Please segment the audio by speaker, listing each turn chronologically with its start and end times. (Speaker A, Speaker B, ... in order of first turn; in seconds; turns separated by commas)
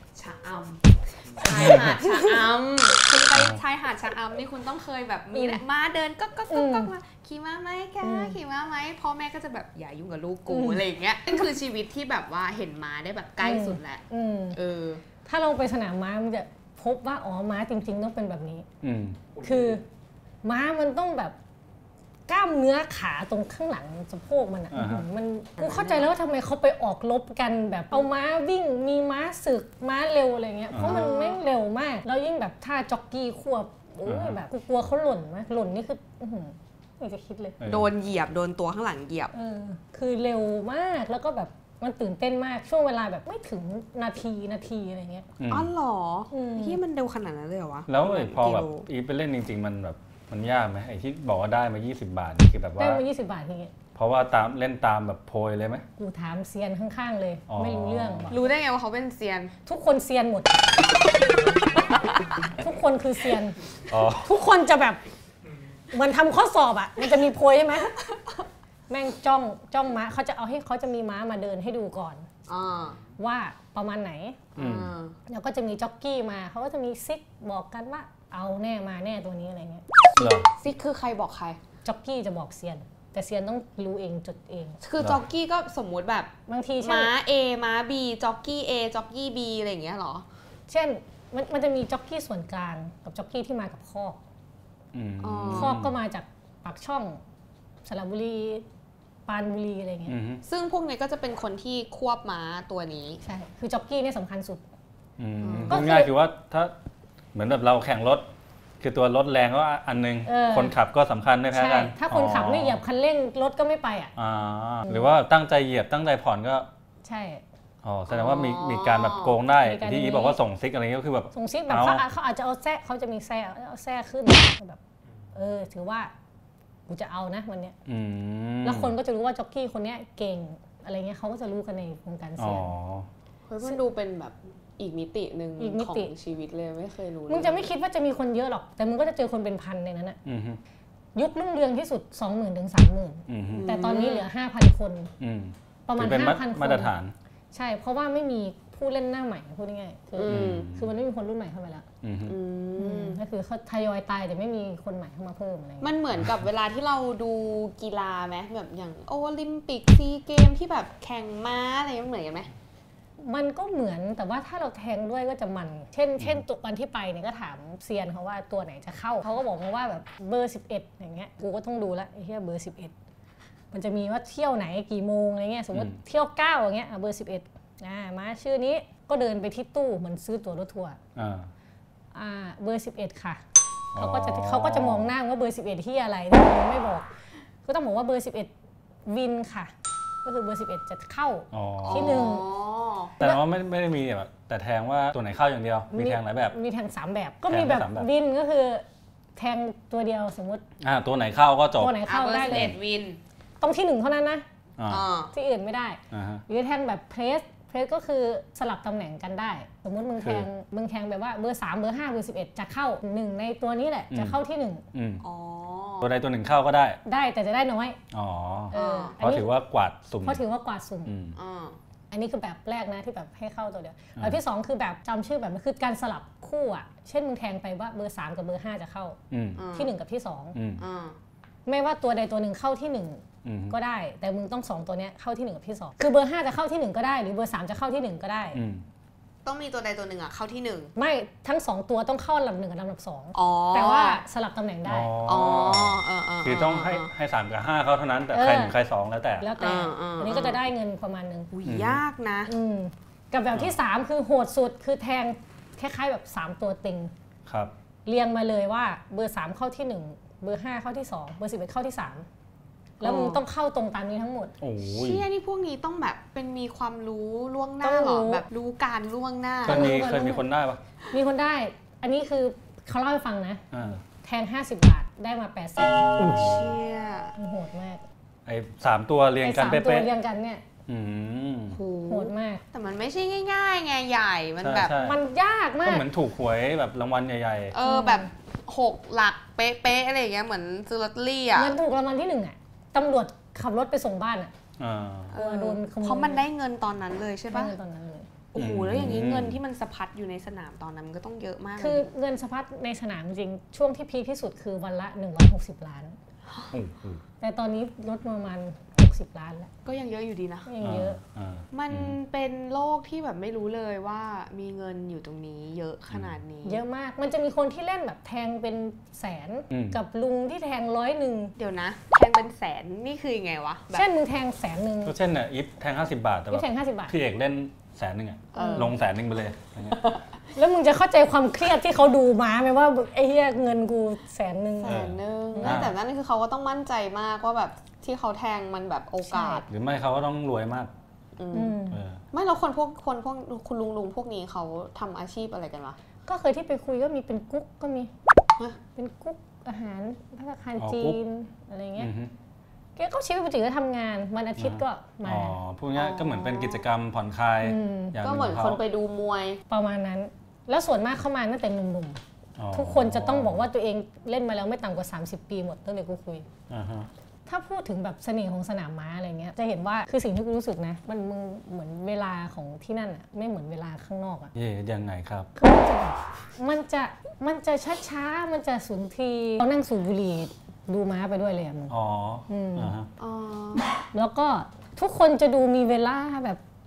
Speaker A: 0.1-15.0, Speaker B: 1.5-1.9, Speaker C: 1.5-1.8, Speaker C: 3.3-3.6, Speaker B: 5.3-5.6, Speaker B: 6.5-6.9, Speaker B: 8.0-8.4, Speaker B: 10.5-10.8, Speaker B: 13.4-14.6, Speaker B: 15.2-18.6, Speaker C: 18.8-19.3, Speaker B: 19.4-19.8, Speaker B: 20.4-21.3, Speaker B: 22.3-37.6, Speaker C: 24.7-25.1, Speaker A: 25.6-26.1, Speaker C: 30.7-31.1, Speaker A: 30.8-31.4, Speaker C: 34.0-34.4, Speaker C: 37.6-37.9, Speaker A: 37.6-39.3, Speaker B: 39.3-45.3, Speaker C: 45.4-45.7, Speaker A: 45.5-48.9, Speaker B: 46.3-46.8, Speaker C: 47.9-53.0, Speaker B: 52.8-53.7, Speaker C: 53.9-55.8, Speaker B: 56.0-58.5, Speaker C: 57.5-58.4, Speaker A: 58.3-59.5, Speaker B: 59.6-60.6, Speaker B: 62.6-63.5, Speaker C: 63.9-64.3, Speaker B: 64.2-65.0, Speaker B: 65.9-68.0, Speaker B: 68.9-72.2, Speaker A: 72.5-73.0, Speaker B: 73.2-74.4, Speaker A: 74.5-75.1, Speaker C: 74.6-74.9, Speaker B: 75.3-79.8, Speaker A: 80.2-81.6, Speaker C: 80.2-80.5, Speaker B: 81.8-84.8, Speaker A: 84.8-90.2, Speaker B: 86.5-87.1, Speaker B: 90.7-94.2, Speaker C: 94.9-96.0, Speaker A: 95.2-95.8, Speaker B: 95.5-97.2, Speaker B: 97.8-98.7, Speaker B: 99.3-100.2, Speaker C: 100.1-100.4, Speaker A: 100.5-103.2, Speaker B: 103.2-104.6, Speaker C: 105.2-106.7, Speaker A: 105.4-105.8, Speaker B: 105.7-106.1, Speaker C: 107.3-108.2, Speaker C: 108.8-112.8, Speaker B: 110.2-110.8, Speaker B: 111.5-114.1, Speaker C: 114.2-116.7, Speaker B: 117.0-117.4, Speaker C: 117.8-122.0, Speaker A: 118.1-119.4, Speaker B: 119.6-120.4, Speaker B: 121.3-124.8, Speaker B: 125.3-126.1, Speaker B: 126.9-127.8, Speaker C: 127.9-128.9, Speaker B: 128.6-132.7, Speaker C: 132.4-133.1, Speaker A: 133.5-137.7, Speaker B: 135.6-136.1, Speaker B: 137.3-140.2, Speaker C: 140.2-140.6, Speaker B: 141.2-145.1, Speaker C: 143.3-143.7, Speaker A: 143.5-144.3, Speaker C: 145.2-147.1, Speaker B: 145.8-146.9, Speaker B: 147.5-151.8, Speaker A: 150.2-150.7, Speaker C: 150.3-150.9, Speaker C: 152.0-152.4, Speaker A: 152.2-153.2, Speaker B: 152.8-155.9, Speaker A: 155.8-162.5, Speaker B: 163.2-172.9, Speaker B: 173.7-181.0, Speaker C: 181.1-181.5, Speaker B: 182.1-183.4, Speaker C: 183.9-185.1, Speaker B: 183.9-187.1, Speaker B: 187.7-188.5, Speaker B: 189.1-189.7, Speaker B: 190.2-192.4, Speaker C: 191.5-192.3, Speaker A: 191.8-193.1, Speaker C: 193.2-196.5, Speaker B: 195.9-198.8, Speaker C: 197.5-198.1, Speaker B: 199.3-200.6, Speaker C: 200.8-201.9, Speaker B: 201.8-202.7, Speaker A: 202.1-203.2, Speaker C: 202.5-202.7, Speaker B: 203.6-204.4, Speaker C: 204.8-205.0, Speaker A: 204.9-205.3, Speaker B: 205.3-214.8, Speaker C: 206.1-206.4, Speaker C: 210.2-210.5, Speaker C: 214.1-214.4, Speaker C: 214.9-215.2, Speaker A: 215.2-216.1, Speaker C: 216.0-217.0, Speaker B: 217.0-218.0, Speaker C: 218.1-220.4, Speaker B: 218.7-219.5, Speaker A: 218.7-219.2, Speaker B: 220.2-221.1, Speaker C: 221.0-221.3, Speaker A: 221.3-221.8, Speaker B: 222.1-229.2, Speaker C: 229.3-229.6, Speaker A: 229.6-229.9, Speaker B: 229.7-230.6, Speaker C: 230.5-230.8, Speaker A: 230.8-231.2, Speaker B: 231.7-238.6, Speaker C: 233.4-233.8, Speaker C: 238.5-238.8, Speaker A: 239.4-240.9, Speaker B: 240.9-245.2, Speaker A: 243.3-244.2, Speaker C: 244.8-249.5, Speaker A: 245.2-247.1, Speaker B: 248.3-248.8, Speaker B: 249.4-251.5, Speaker A: 249.6-250.6, Speaker A: 251.5-252.5, Speaker C: 251.7-252.0, Speaker B: 252.5-257.1, Speaker C: 257.4-257.7, Speaker B: 258.1-262.2, Speaker A: 263.0-263.4, Speaker B: 263.0-264.5, Speaker C: 264.6-265.2, Speaker A: 264.8-269.9, Speaker B: 267.8-268.4, Speaker C: 269.6-270.8, Speaker B: 269.7-270.4, Speaker B: 271.1-276.2, Speaker C: 273.7-274.0, Speaker C: 276.2-276.7, Speaker A: 276.2-277.3, Speaker B: 277.4-278.0, Speaker C: 278.4-280.1, Speaker B: 279.4-280.6, Speaker C: 280.9-281.8, Speaker A: 281.7-284.9, Speaker B: 282.1-282.6, Speaker C: 284.6-285.2, Speaker B: 285.0-286.1, Speaker C: 285.8-287.8, Speaker A: 287.7-291.8, Speaker B: 287.8-288.3, Speaker B: 291.5-294.5, Speaker C: 294.8-295.3, Speaker A: 295.3-297.7, Speaker B: 295.4-296.4, Speaker B: 297.5-298.3, Speaker A: 298.5-302.1, Speaker C: 298.6-299.6, Speaker B: 301.8-306.1, Speaker C: 306.7-307.2, Speaker B: 307.4-309.7, Speaker A: 309.8-310.7, Speaker B: 310.6-311.2, Speaker C: 310.8-312.2, Speaker A: 311.7-316.8, Speaker C: 316.1-316.4, Speaker B: 316.6-321.5, Speaker C: 319.7-320.0, Speaker A: 321.6-324.1, Speaker B: 323.9-325.1, Speaker C: 325.0-330.0, Speaker B: 326.5-327.1, Speaker A: 328.5-328.9, Speaker B: 328.5-328.9, Speaker A: 329.9-330.2, Speaker B: 330.6-335.9, Speaker A: 334.8-339.6, Speaker C: 334.8-335.9, Speaker B: 339.2-339.6, Speaker C: 339.7-340.9, Speaker A: 341.4-341.8, Speaker B: 341.5-342.0, Speaker C: 341.9-342.2, Speaker A: 342.3-345.9, Speaker B: 346.2-348.1, Speaker B: 348.9-352.1, Speaker C: 350.8-351.2, Speaker C: 352.0-352.3, Speaker B: 352.9-355.6, Speaker C: 354.6-358.8, Speaker A: 355.9-356.8, Speaker B: 357.6-358.2, Speaker A: 358.2-359.6, Speaker B: 359.7-362.2, Speaker C: 362.6-363.7, Speaker B: 362.7-366.5, Speaker C: 366.7-367.1, Speaker B: 367.4-374.5, Speaker C: 374.5-375.5, Speaker B: 375.6-381.9, Speaker C: 381.9-383.1, Speaker B: 382.5-382.9, Speaker A: 383.2-383.9, Speaker B: 384.1-386.6